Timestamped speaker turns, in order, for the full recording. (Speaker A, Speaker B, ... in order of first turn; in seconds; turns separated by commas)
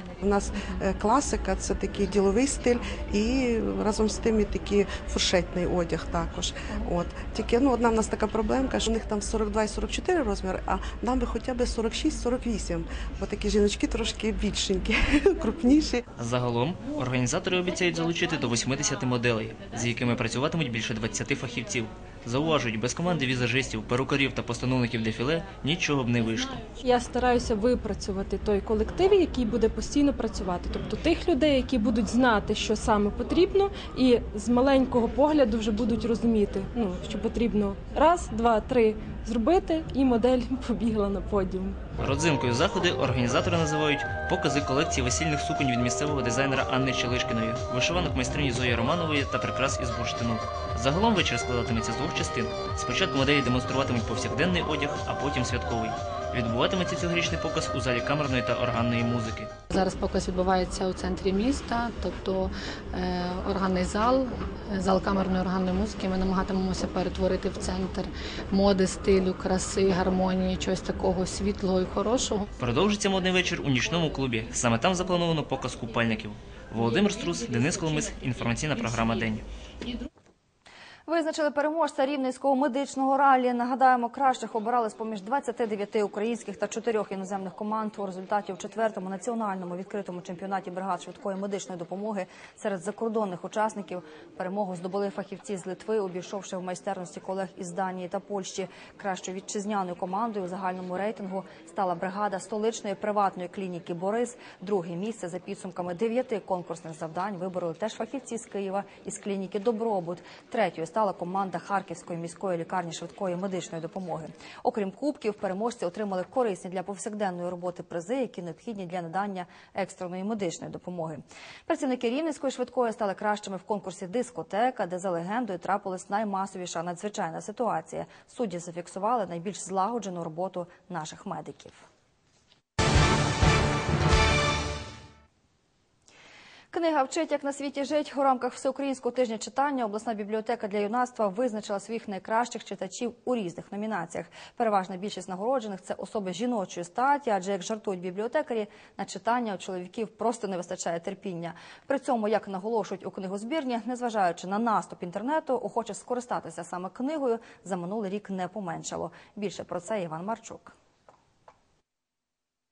Speaker A: 0.2-16.0, Speaker B: 16.2-26.6, Speaker C: 26.8-41.8, Speaker B: 42.0-59.5, Speaker D: 59.7-72.5, Speaker B: 72.6-79.4, Speaker E: 81.0-131.8, Speaker E: 136.7-160.7